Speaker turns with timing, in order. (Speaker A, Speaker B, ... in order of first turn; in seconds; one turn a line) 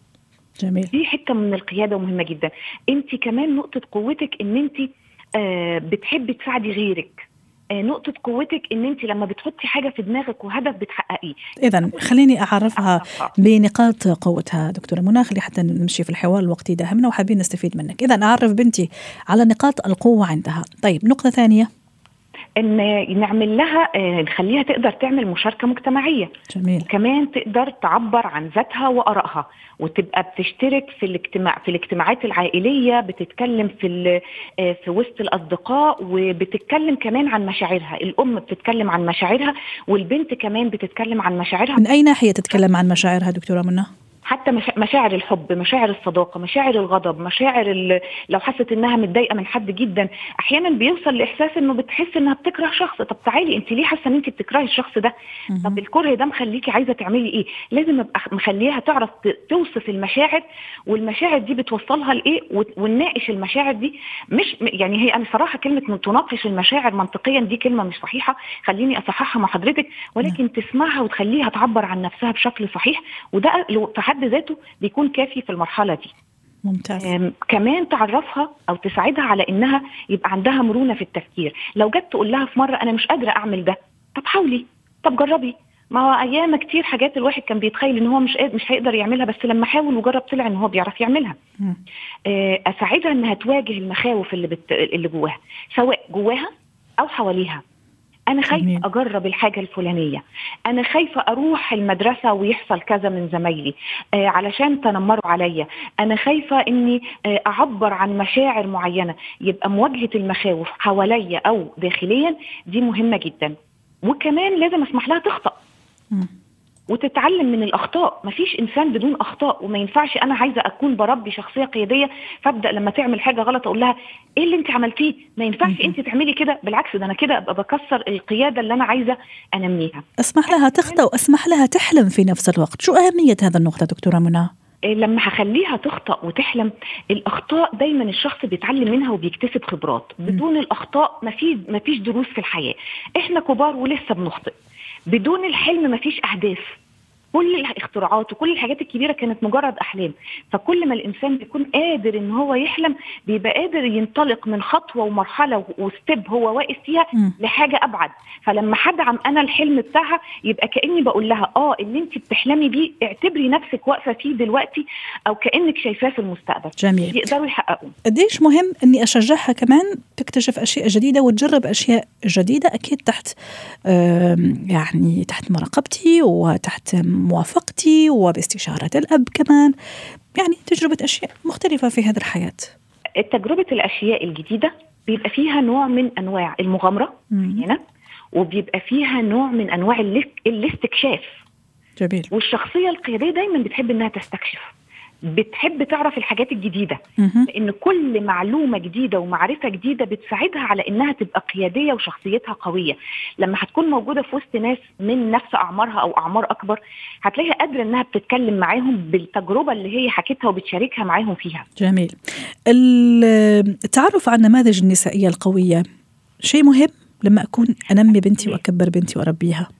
Speaker A: 0.6-0.9
Speaker B: 0.9-11.4
Speaker A: 11.6-21.7
Speaker B: 12.8-13.3
Speaker B: 22.6-26.3
Speaker A: 26.5-26.9
Speaker B: 26.9-34.0
Speaker B: 34.6-41.8
Speaker A: 41.8-43.9
Speaker B: 44.2-55.1
Speaker A: 55.5-55.8
Speaker B: 55.6-76.1
Speaker A: 76.6-77.1
Speaker B: 77.0-91.3
Speaker B: 92.3-97.6
Speaker B: 98.3-113.5
Speaker A: 98.5-98.8
Speaker B: 114.0-115.5
Speaker B: 116.9-130.0
Speaker A: 125.6-125.9
Speaker A: 130.2-134.5
Speaker B: 134.9-144.5
Speaker B: 145.1-146.8
Speaker B: 147.3-167.9
Speaker A: 166.8-167.2
Speaker A: 168.1-173.3
Speaker A: 173.9-179.7
Speaker A: 180.3-182.7
Speaker B: 183.2-187.8
Speaker A: 187.3-187.6
Speaker B: 188.3-191.4
Speaker A: 192.0-192.3
Speaker B: 192.3-194.7
Speaker B: 195.3-211.7
Speaker A: 197.2-197.5
Speaker A: 211.8-212.2
Speaker A: 212.7-215.8
Speaker A: 216.4-219.7